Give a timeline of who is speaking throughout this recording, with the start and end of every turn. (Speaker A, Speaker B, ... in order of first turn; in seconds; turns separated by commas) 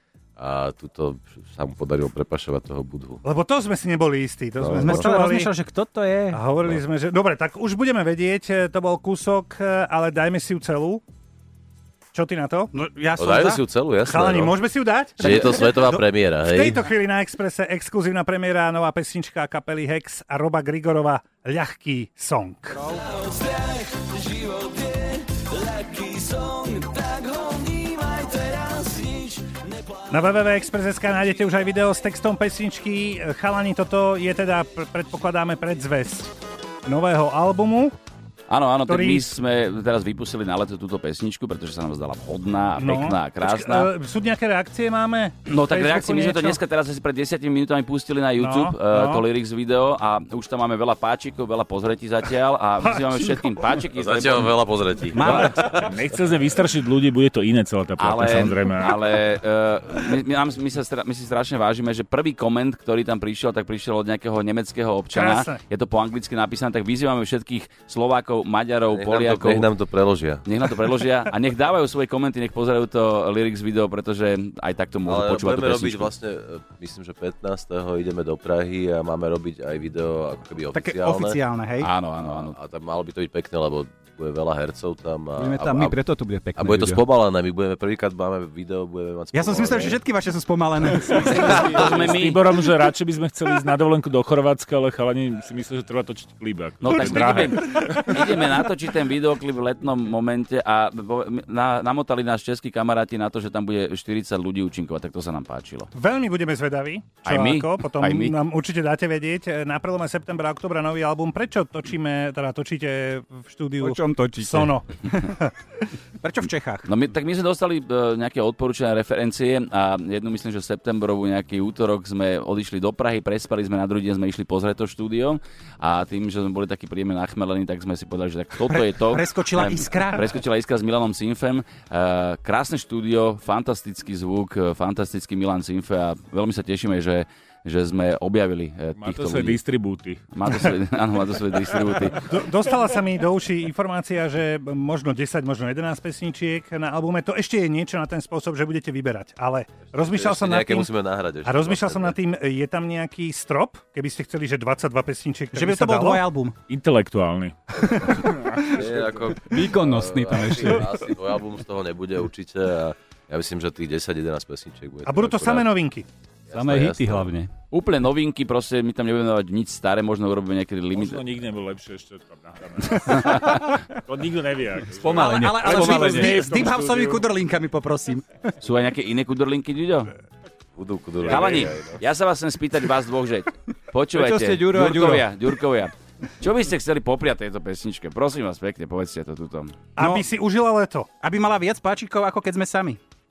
Speaker A: 0.4-3.2, Speaker B: 3.2-5.5, Speaker A: 4.6-5.1, Speaker C: 4.8-6.4, Speaker B: 6.3-11.0, Speaker B: 12.1-12.7, Speaker C: 12.7-13.6, Speaker A: 13.2-14.5, Speaker B: 14.1-22.9, Speaker A: 15.2-16.8, Speaker D: 25.1-29.4, Speaker B: 30.1-36.3, Speaker B: 36.9-37.9, Speaker D: 38.5-43.9, Speaker B: 38.9-39.3, Speaker B: 42.8-46.6, Speaker D: 45.5-54.5, Speaker B: 48.4-49.2, Speaker B: 52.9-53.5, Speaker A: 53.9-55.8, Speaker C: 55.1-55.5, Speaker D: 55.2-55.5, Speaker E: 55.2-59.0, Speaker D: 58.0-69.7, Speaker B: 65.1-65.6, Speaker A: 68.9-70.4, Speaker D: 70.4-76.1, Speaker A: 75.0-81.4, Speaker C: 80.7-81.9, Speaker D: 81.8-82.5, Speaker A: 82.2-86.0, Speaker F: 85.3-87.0, Speaker A: 86.5-90.0, Speaker C: 89.3-91.7, Speaker D: 91.2-92.4, Speaker E: 91.4-98.1, Speaker D: 96.8-105.9, Speaker B: 105.9-115.5, Speaker D: 107.2-108.3, Speaker F: 113.8-114.7, Speaker C: 116.2-116.9, Speaker D: 116.8-139.6, Speaker C: 128.7-130.3, Speaker E: 139.0-140.2, Speaker D: 140.3-142.2, Speaker B: 142.1-150.9, Speaker A: 150.0-152.2, Speaker B: 151.4-156.2, Speaker C: 155.5-156.6, Speaker E: 156.7-159.2, Speaker A: 157.8-165.7, Speaker F: 159.4-161.1, Speaker B: 165.1-166.1, Speaker A: 166.5-167.3, Speaker F: 166.5-167.5, Speaker D: 167.7-171.2, Speaker E: 170.9-177.3, Speaker D: 172.9-173.8, Speaker F: 174.9-176.5, Speaker C: 175.1-178.3, Speaker D: 178.6-180.1, Speaker A: 180.8-182.0, Speaker D: 181.2-189.7, Speaker E: 181.3-181.6, Speaker F: 184.1-185.3, Speaker B: 189.9-191.1, Speaker C: 190.0-190.3, Speaker C: 191.2-193.0